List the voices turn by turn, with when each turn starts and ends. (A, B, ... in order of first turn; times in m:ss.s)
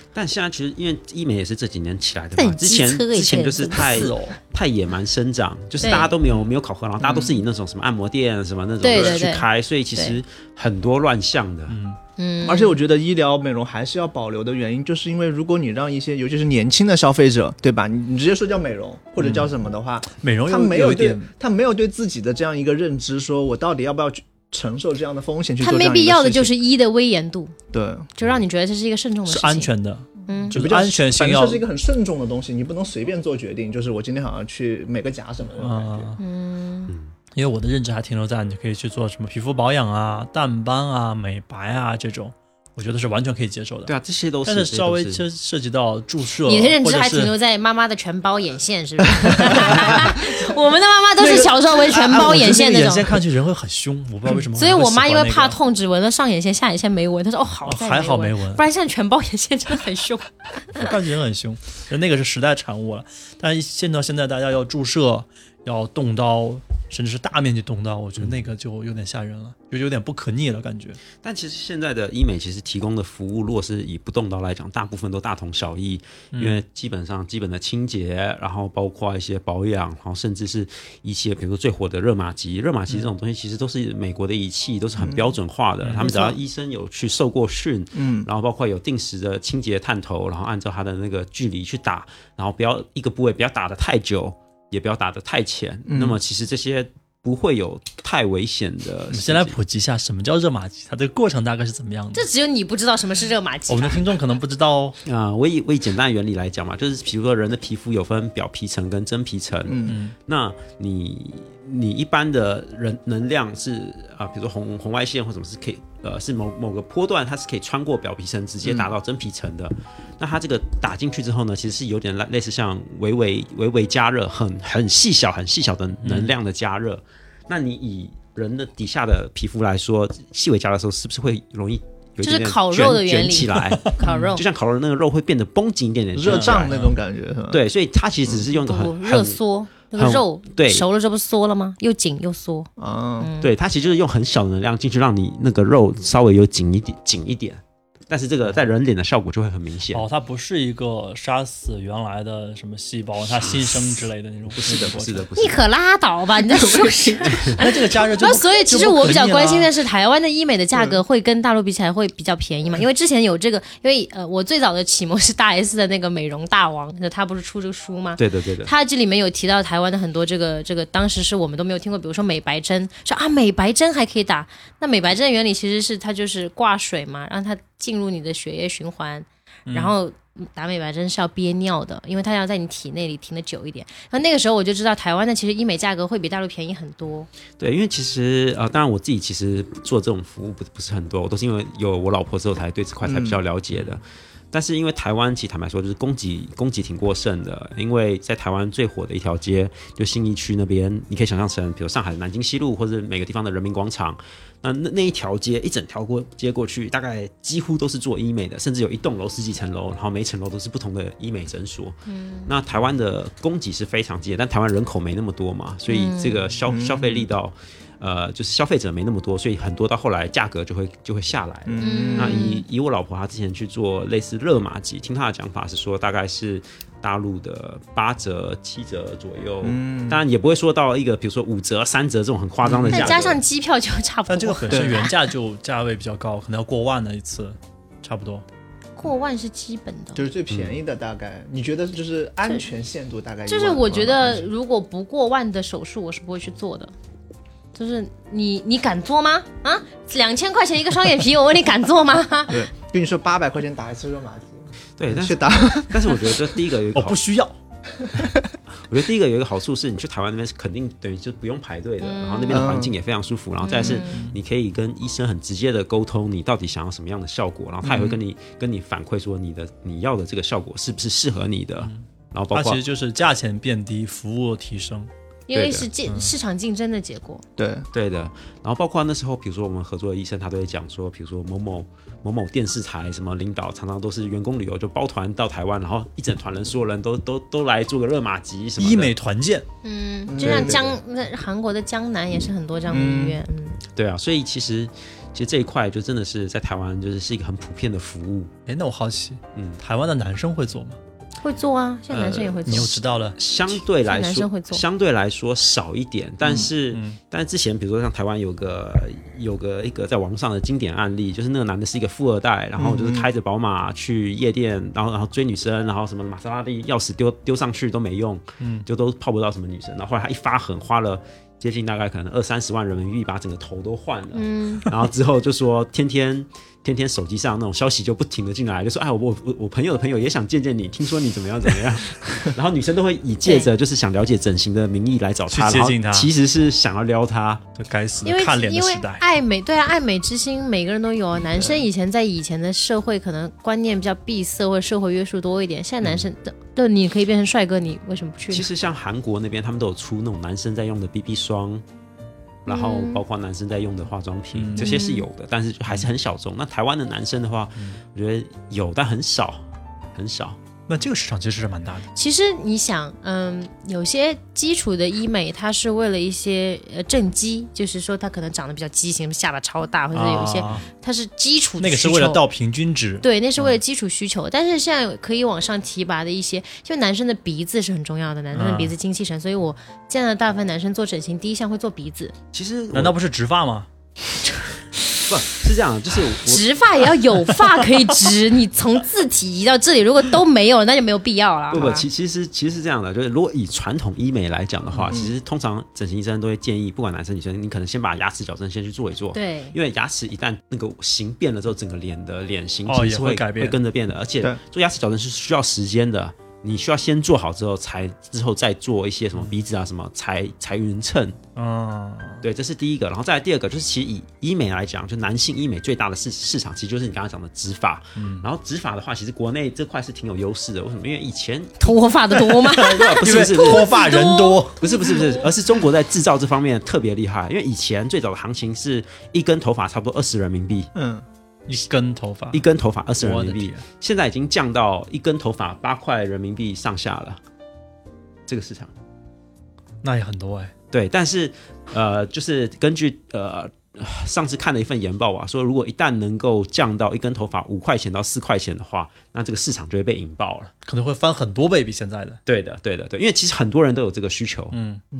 0:00.1-0:11.8 A
0:02.3-0:04.1 B
0:03.7-0:04.4 C
0:05.8-0:06.1 B
0:07.0-0:07.4 D
0:08.8-0:10.2 B
0:11.7-0:12.0 C
0:12.2-0:12.7 B
0:12.4-0:26.5 D
0:19.2-0:19.6 C
0:20.1-0:21.3 C
0:25.6-0:27.5 B
0:27.7-0:28.1 D
0:28.2-0:29.7 B
0:29.2-0:31.6 C
0:30.3-0:30.6 B
0:30.5-0:36.1 D
0:35.6-0:36.2 C
0:36.2-0:36.9 B
0:36.9-0:37.1 A
0:37.3-0:43.9 C
0:43.9-0:45.2 A
0:44.4-0:47.3 C
0:46.4-0:53.1 B
0:49.6-0:50.1 C
0:51.2-0:55.6 C
0:54.6-1:00.9 B
0:57.6-0:58.6 C
1:00.7-1:11.0 C
1:11.2-1:39.6 A
1:16.3-1:16.6 C
1:25.0-1:25.3 D
1:25.8-1:26.1 C
1:26.0-1:26.4 B
1:27.9-1:28.3 D
1:35.9-1:36.2 D
1:39.1-1:42.2 C
1:42.1-1:44.0 B
1:43.7-1:45.0 C
1:45.0-2:16.7 A
1:49.6-1:50.0 D
1:49.8-1:50.1 C
1:58.6-1:58.9 D
2:06.0-2:06.3 C
2:12.2-2:14.4 B
2:13.8-2:14.1 C
2:16.1-2:17.6 D
2:16.2-2:17.0 C
2:17.5-2:19.4 A
2:18.5-2:22.7 B
2:19.9-2:20.8 A
2:22.8-2:23.3 D
2:23.2-2:23.5 B
2:23.4-2:30.0 A
2:29.9-2:35.3 C
2:33.4-2:34.0 A
2:34.5-2:35.6 A
2:35.4-3:07.3 B
2:36.7-2:37.0 D
2:37.4-2:39.7 C
2:48.2-2:48.7 A
2:59.7-2:59.9 C
3:07.6-3:53.4 A
3:13.0-3:13.4 D
3:32.1-3:32.5 B
3:35.9-3:36.5 B
3:36.6-3:37.3 D
3:41.6-3:42.4 D
3:41.8-3:42.6 B
3:49.6-3:50.2 D
3:52.6-3:53.2 D
3:52.9-3:55.2 B
3:54.3-3:58.4 C
3:54.7-3:55.1 D
3:59.0-4:00.2 B
4:00.1-4:04.4 D
4:00.5-4:00.8 A
4:03.5-4:06.9 B
4:07.7-4:12.6 B
4:12.5-4:16.4 D
4:15.0-4:17.2 A
4:16.9-4:17.6 C
4:17.9-4:18.5 D
4:18.8-4:32.8 A
4:22.0-4:22.7 B
4:22.5-4:22.9 D
4:23.6-4:24.2 B
4:24.0-4:24.4 C
4:27.8-4:28.2 D
4:31.8-4:35.1 C
4:35.5-4:37.4 B
4:35.5-4:35.9 A
4:36.0-4:36.3 C
4:37.6-4:37.9 D
4:37.9-4:49.1 A
4:48.8-4:49.7 C
4:49.8-4:53.8 B
4:50.3-4:50.8 D
4:50.4-4:50.9 A
4:52.9-4:53.4 D
4:53.9-4:58.5 A
4:58.6-5:01.0 C
4:59.5-4:59.8 A
5:01.4-5:03.0 B
5:02.1-5:37.6 A
5:02.6-5:03.4 C
5:04.0-5:04.8 B
5:06.4-5:07.2 C
5:12.8-5:13.3 D
5:18.6-5:18.8 C
5:24.3-5:24.9 B
5:33.4-5:33.7 B
5:35.5-5:36.3 C
5:37.8-5:39.2 C
5:38.2-5:48.7 B
5:48.5-5:51.8 A
5:52.6-6:00.6 A
5:52.7-5:53.2 B
5:54.5-5:54.9 C
5:54.7-5:55.3 B
6:00.9-6:02.1 C
6:02.1-6:12.4 B
6:10.1-6:10.8 C
6:11.8-6:13.7 C
6:13.2-6:22.3 B
6:18.5-6:18.9 C
6:22.5-6:23.2 A
6:22.9-6:23.9 C
6:25.3-6:26.6 A
6:26.4-6:32.1 B
6:31.7-6:51.4 A
6:39.3-6:39.7 B
6:42.8-6:43.8 C
6:51.6-6:52.4 C
6:52.4-7:01.8 A
6:58.2-6:58.5 C
7:01.8-7:05.4 B
7:02.4-7:04.8 C
7:02.8-7:04.0 A
7:04.8-7:10.9 A
7:10.9-7:11.2 D
7:11.7-7:12.6 C
7:12.5-7:17.4 A
7:13.2-7:13.8 C
7:18.5-7:18.9 A
7:20.0-7:20.7 C
7:20.9-7:30.7 A
7:30.8-7:32.4 C
7:32.4-7:34.8 A
7:34.7-7:35.0 C